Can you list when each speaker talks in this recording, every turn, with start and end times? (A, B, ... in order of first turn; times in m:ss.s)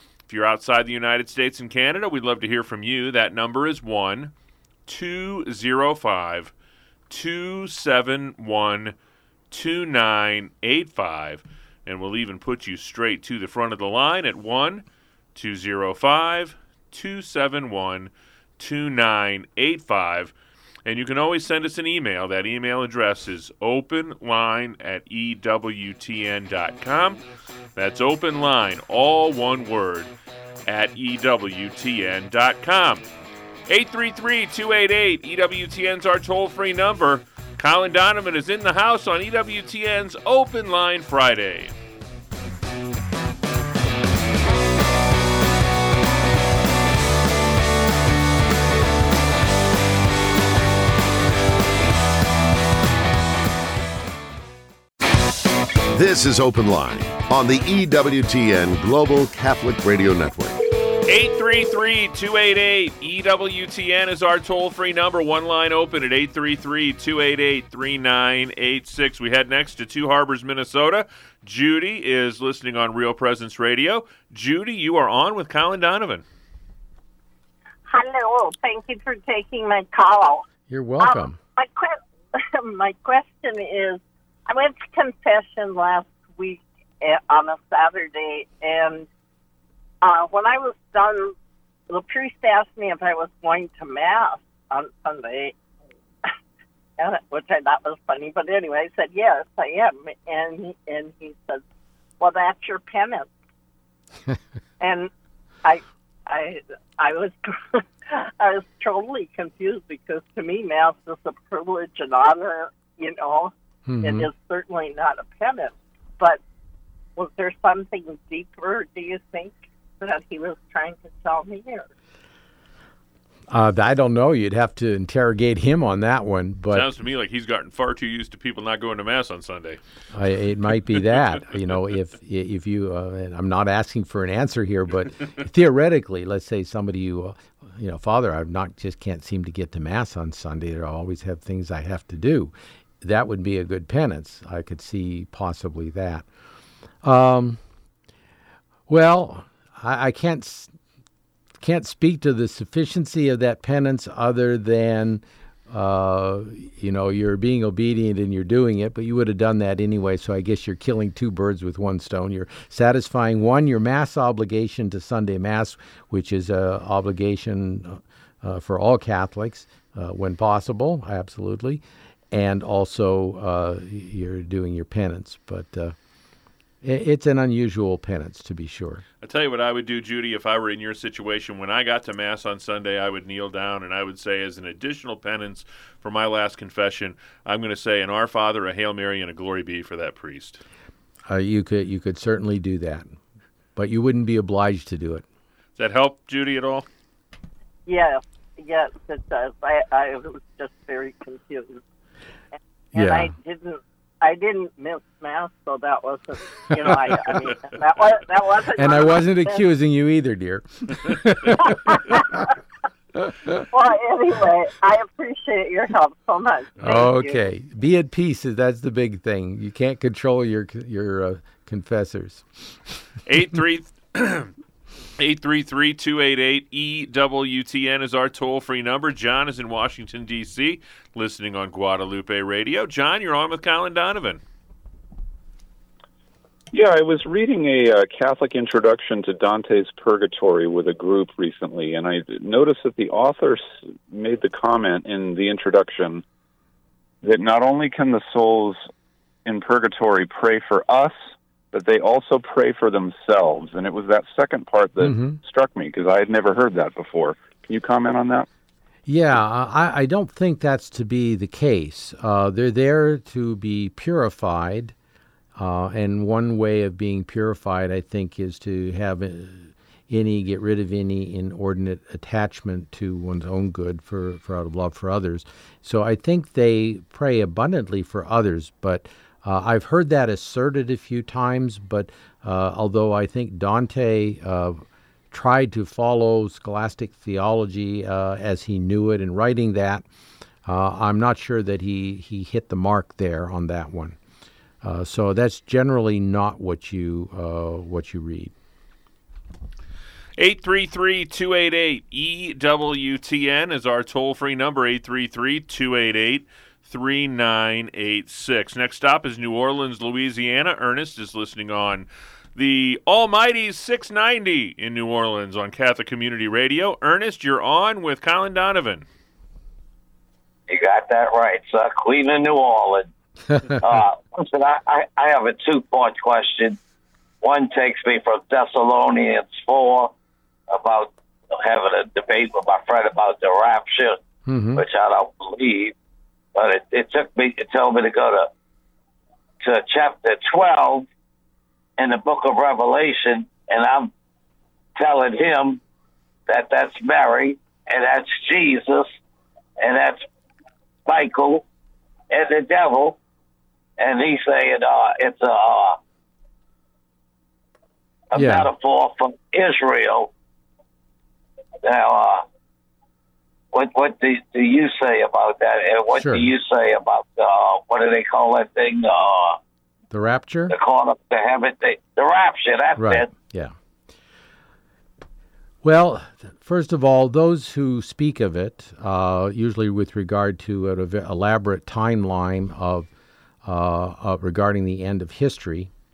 0:00.3-0:04.3 A
0:04.9-0:06.5 A
0:07.1-0:09.0 A
0:09.5-0:20.3 A
0:20.8-0:27.2 A
0:27.8-0:30.1 A
0:30.7-0:33.1 A
0:33.7-0:41.7 A
0:55.9-1:00.6 B
1:01.1-1:16.2 A
1:17.9-1:20.4 C
1:20.7-1:21.4 D
1:21.0-1:29.1 C
1:30.0-1:31.4 C
1:31.9-1:35.5 C
1:37.0-1:41.6 C
1:42.2-1:43.3 C
1:44.8-1:45.1 C
1:45.6-1:56.4 C
1:53.9-1:54.3 D
1:57.2-2:01.9 C
2:03.5-2:06.9 D
2:06.7-2:09.8 A
2:10.1-2:26.3 D
2:27.0-2:27.6 D
2:28.9-2:30.7 D
2:31.6-2:56.0 D
2:56.8-2:59.0 D
2:59.2-3:10.6 A
3:11.3-3:13.1 D
3:13.8-3:15.2 D
3:15.8-3:16.9 A
3:17.9-3:21.8 C
3:22.9-3:23.3 D
3:23.0-3:29.6 C
3:28.8-3:32.4 D
3:31.7-3:32.0 C
3:33.2-3:33.6 D
3:33.7-3:37.4 C
3:36.8-3:42.5 D
3:43.3-3:44.5 A
3:45.2-3:54.4 A
3:56.7-4:06.2 E
4:07.2-4:08.8 E
4:09.4-4:11.2 E
4:11.7-4:18.5 E
4:15.0-4:15.4 D
4:19.1-4:24.9 D
4:25.6-4:50.0 D
4:50.7-4:54.2 D
4:54.8-4:58.5 D
5:00.4-5:19.1 A
5:20.7-5:23.1 F
5:23.8-5:26.8 F
5:27.4-5:30.1 F
5:30.7-5:34.2 F
5:34.5-5:34.8 D
5:34.8-5:35.9 F
5:36.6-5:38.5 F
5:39.6-5:41.1 F
5:42.0-5:44.1 F
5:45.0-5:45.8 F
5:46.5-5:49.1 F
5:49.8-5:50.2 F
5:51.1-5:51.6 F
5:52.3-5:53.2 F
5:54.0-5:56.0 F
5:58.3-6:00.3 F
5:58.4-5:58.7 D
6:01.8-6:02.4 F
6:03.7-6:09.6 F
6:06.1-6:06.5 D
6:10.1-6:10.8 D
6:10.7-6:13.3 F
6:13.0-6:13.7 D
6:15.8-6:23.1 D
6:23.6-6:25.9 D